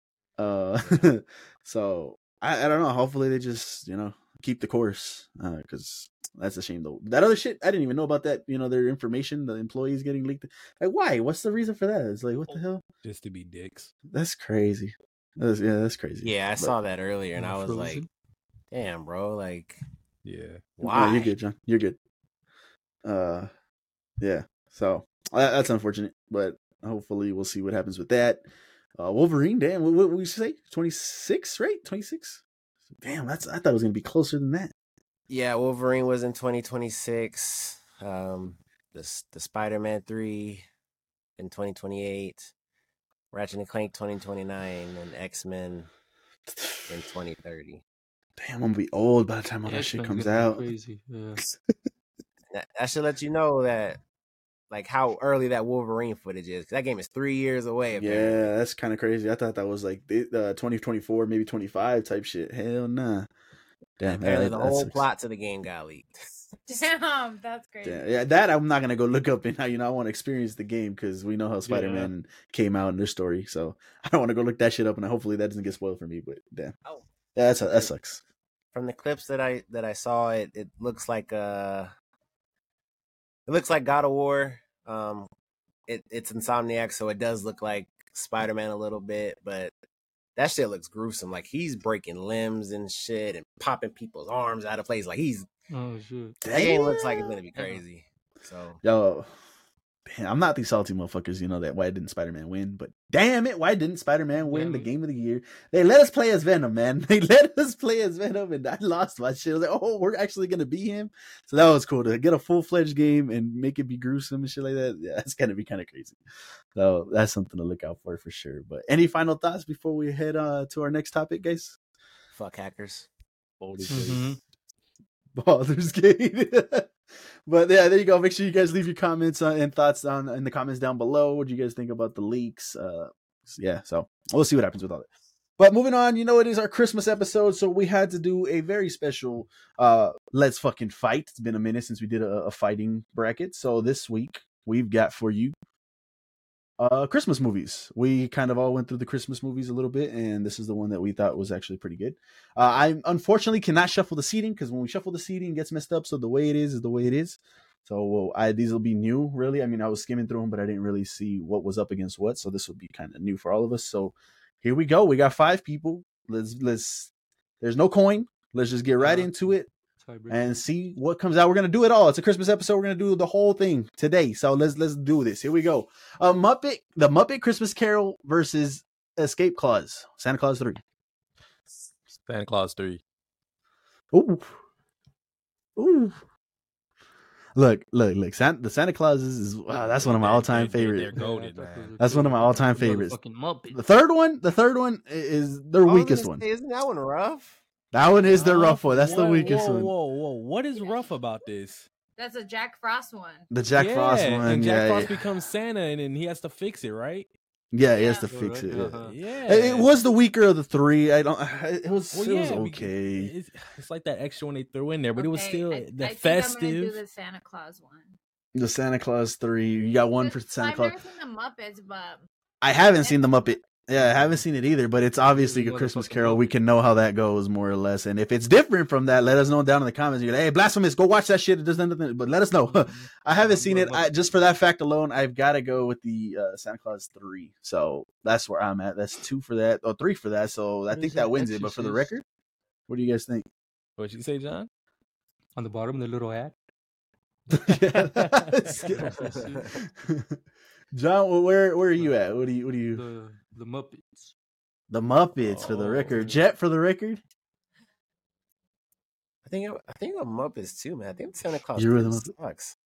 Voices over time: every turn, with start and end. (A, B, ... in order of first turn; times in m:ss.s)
0:00.4-0:12.8 A
0:00.8-0:01.1 B
0:13.0-0:13.9 C
0:14.1-0:16.8 A
0:16.2-0:18.0 B
0:17.4-0:18.1 D
0:18.7-0:19.8 B
0:20.2-0:20.6 C
0:20.8-0:21.3 B
0:20.8-0:22.0 A
0:23.0-0:23.5 A
0:24.2-0:28.4 A
0:29.0-0:32.4 A
0:33.0-0:34.7 A
0:35.3-0:40.6 B
0:41.4-0:42.5 B
0:43.3-0:45.9 B
0:46.5-0:46.9 A
0:46.9-0:47.8 B
0:48.4-0:50.7 A
0:49.6-0:51.4 D
0:51.4-0:51.7 A
0:52.5-0:54.0 B
0:54.7-0:58.5 B
0:57.9-1:03.3 A
1:04.0-1:05.0 A
1:04.0-1:06.8 B
1:06.7-1:08.1 E
1:07.8-1:16.7 A
1:11.6-1:12.1 D
1:17.3-1:18.2 A
1:17.6-1:17.9 B
1:18.7-1:21.9 B
1:23.5-1:25.3 B
1:25.9-1:29.7 B
1:30.4-1:35.5 B
1:35.7-1:36.4 D
1:36.4-1:37.3 A
1:36.5-1:38.8 B
1:38.8-1:39.3 A
1:40.0-1:56.2 A
1:44.4-1:44.9 D
1:56.8-2:01.8 A
2:02.3-2:03.1 B
2:03.6-2:04.3 A
2:03.8-2:04.1 C
2:03.9-2:04.4 D
2:05.3-2:06.9 A
2:07.4-2:15.1 A
2:15.6-2:25.5 A
2:26.8-2:49.7 A
2:49.0-2:50.6 D
2:50.3-3:00.8 A
3:02.2-3:03.0 C
3:04.1-3:04.6 A
3:05.8-3:06.2 A
3:07.6-3:11.1 A
3:09.9-3:11.9 C
3:11.1-3:13.8 D
3:12.0-3:13.2 A
3:13.7-3:16.4 A
3:15.8-3:17.6 B
3:17.9-3:19.9 A
3:18.3-3:21.9 C
3:19.3-3:19.6 E
3:20.7-3:21.2 E
3:22.2-3:23.5 E
3:23.5-3:25.1 A
3:23.8-3:27.3 C
3:27.7-3:33.3 A
3:27.9-3:28.3 E
3:28.2-3:29.1 D
3:29.0-3:29.9 C
3:32.1-3:37.0 C
3:35.2-3:38.2 E
3:38.5-3:41.0 A
3:40.2-3:42.2 E
3:42.6-4:02.2 A
3:43.0-3:43.6 E
3:44.0-3:44.3 D
3:45.2-3:46.5 D
3:52.6-3:54.1 D
4:00.9-4:02.1 D
4:02.9-4:03.5 A
4:04.0-4:04.7 C
4:05.6-4:06.5 D
4:07.5-4:10.4 A
4:08.1-4:09.1 C
4:08.9-4:09.8 D
4:10.9-4:13.0 A
4:12.9-4:14.3 D
4:14.9-4:17.2 A
4:15.4-4:16.3 C
4:19.4-4:22.7 B
4:21.8-4:22.3 A